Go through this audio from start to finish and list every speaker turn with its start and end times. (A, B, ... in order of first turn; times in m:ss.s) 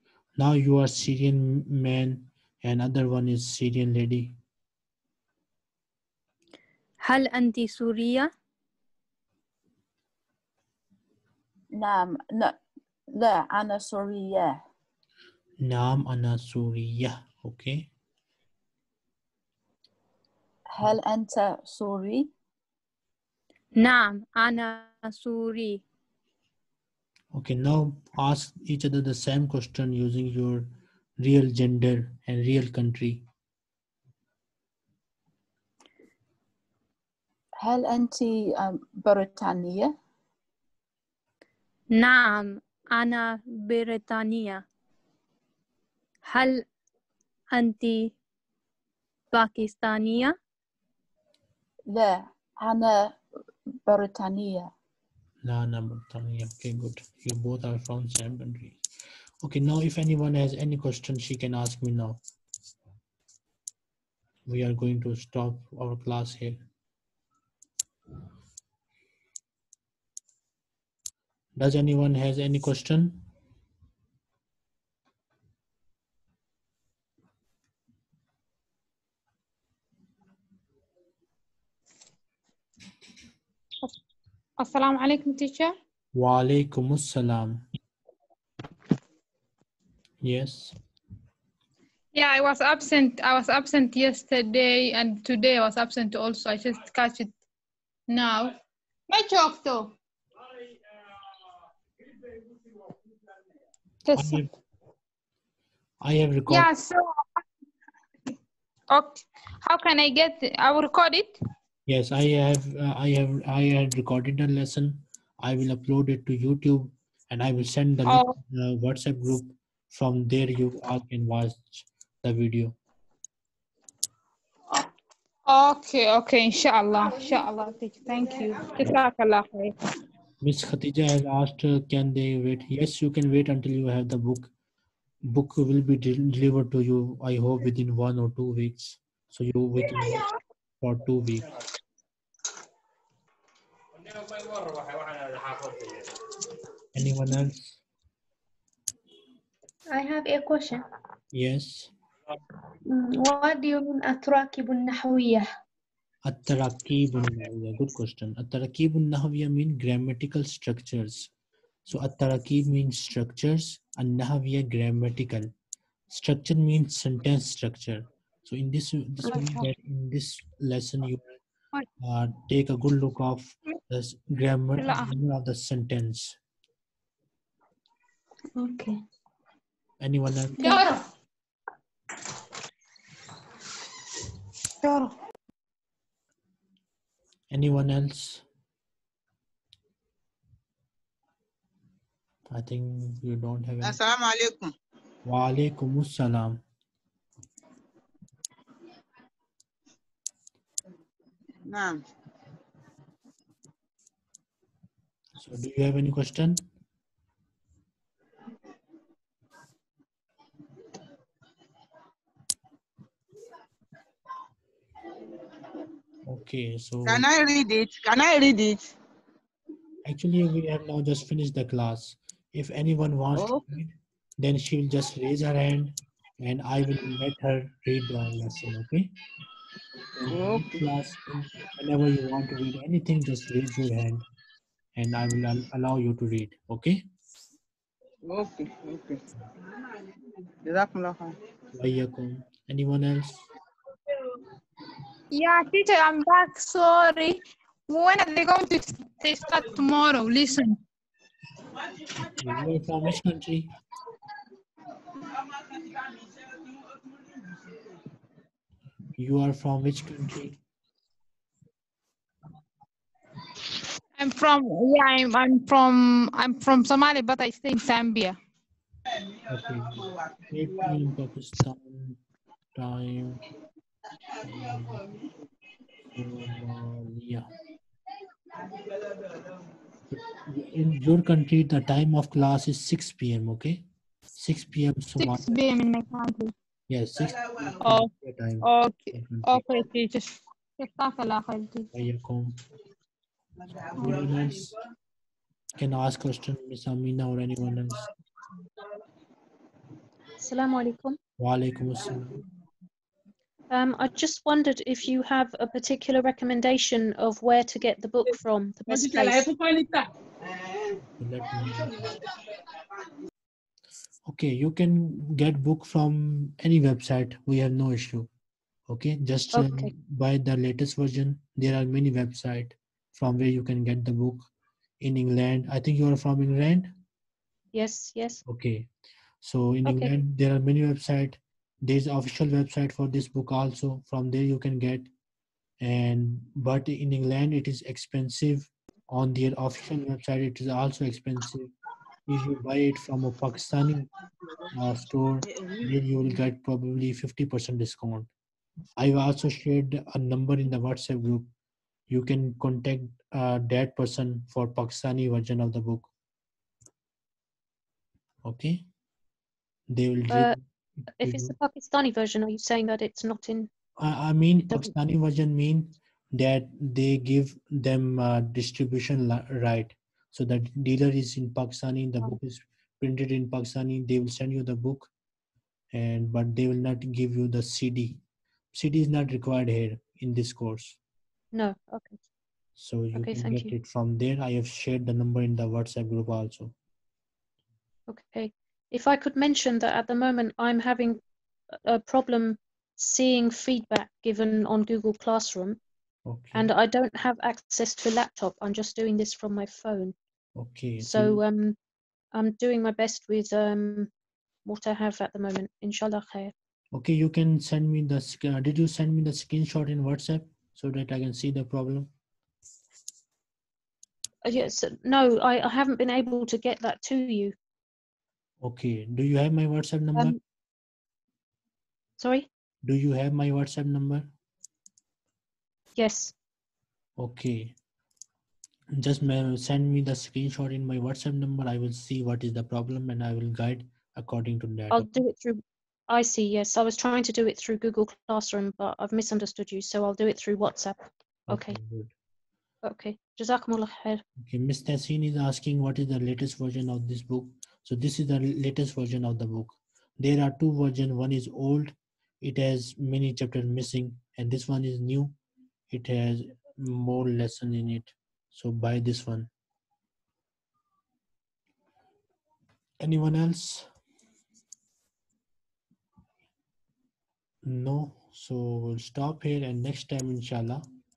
0:00.4-0:04.4 A
0:07.0-0:08.3 B
0:11.7-0:12.6 C
0:13.1-0:14.6 C
0:15.6-0:17.9 A
0:20.7-0:22.3 C
0:23.8-0:25.8 B
0:27.3-0:33.2 A
0:37.6-0:39.9 C
0:41.9-0:44.6 B
0:46.3-0:46.6 B
0:47.5-0:48.1 B
0:49.3-0:50.3 B
0:51.9-0:53.2 C
0:53.8-0:54.7 C
0:55.4-0:58.8 A
0:59.4-1:02.2 A
1:04.5-1:06.6 A
1:11.6-1:13.2 A
1:24.6-1:25.7 D
1:26.1-1:27.6 A
1:30.2-1:30.8 A
1:32.1-1:37.4 D
1:38.1-1:38.6 D
1:39.1-1:39.9 D
1:44.1-1:44.4 D
1:44.1-1:44.5 A
1:46.0-1:46.7 A
1:46.5-1:47.4 D
1:48.9-1:51.4 D
1:51.9-2:02.8 A
1:58.1-1:58.3 D
2:05.5-2:09.7 D
2:10.4-2:14.5 A
2:15.3-2:21.5 A
2:26.9-2:27.8 A
2:29.9-2:30.8 E
2:31.3-2:31.9 A
2:32.8-2:35.4 E
2:36.2-2:41.3 A
2:41.9-2:45.5 A
2:46.1-2:51.4 A
2:52.0-2:56.4 A
2:54.8-2:55.1 D
2:58.6-2:59.0 E
3:00.0-3:00.7 A
3:00.6-3:01.0 D
3:00.6-3:00.9 E
3:07.5-3:08.4 A
3:12.5-3:14.0 A
3:13.8-3:14.7 F
3:15.2-3:16.6 A
3:21.7-3:22.0 F
3:25.4-3:26.7 A
3:36.2-3:37.2 A
3:37.1-3:38.8 F
3:40.0-3:49.1 A
3:43.3-3:43.6 F
3:50.2-3:54.2 A
3:50.2-3:50.8 F
3:55.0-3:57.0 A
3:58.3-3:59.2 F
4:00.6-4:01.3 F
4:01.7-4:03.4 A
4:05.3-4:10.8 D
4:12.2-4:13.7 A
4:19.2-4:20.6 A
4:24.2-4:28.4 D
4:29.5-4:32.2 A
4:32.7-4:33.4 A
4:34.4-4:35.1 A
4:36.1-4:37.5 A
4:40.1-4:43.8 A
4:44.4-4:45.6 A
4:45.2-4:46.5 D
4:46.9-4:49.6 A
4:47.8-4:48.1 D
4:48.6-4:51.9 D
4:51.9-4:52.6 A
4:53.9-4:54.7 A
4:55.8-4:58.0 A
5:00.4-5:01.2 G
5:01.4-5:02.4 A
5:03.7-5:09.5 G
5:08.9-5:10.0 F
5:11.2-5:12.2 A
5:14.3-5:18.3 A
5:18.9-5:24.5 A
5:19.5-5:19.9 G
5:25.0-5:26.9 A
5:27.7-5:28.4 G
5:28.4-5:28.9 A
5:29.4-5:35.1 A
5:29.8-5:30.1 G
5:35.8-5:41.7 A
5:42.3-5:44.1 A
5:44.7-5:48.3 A
5:49.0-5:51.5 A
5:52.1-5:56.1 A
5:58.4-5:58.8 A
5:59.9-6:01.5 A
6:00.3-6:00.5 G
6:01.2-6:03.7 G
6:04.0-6:15.1 A
6:15.9-6:18.2 A
6:18.7-6:21.0 A
6:21.5-6:22.2 G
6:22.8-6:26.7 A
6:23.1-6:23.7 G
6:28.1-6:31.2 G
6:31.8-6:35.8 G
6:36.2-6:36.7 A
6:36.5-6:40.1 G
6:40.6-6:41.4 A
6:41.0-6:41.8 G
6:42.3-6:44.1 G
6:44.6-6:46.5 G
6:46.9-6:52.1 A
6:54.4-6:57.5 G
6:58.6-7:00.4 A
7:02.2-7:02.5 G
7:02.8-7:04.3 A
7:06.0-7:06.3 G
7:07.2-7:07.7 A
7:09.0-7:15.2 A
7:14.9-7:21.8 G
7:21.5-7:22.1 A
7:22.8-7:24.2 G
7:24.4-7:35.3 A
7:35.9-7:39.5 A
7:43.0-7:43.9 A
7:47.6-7:50.8 A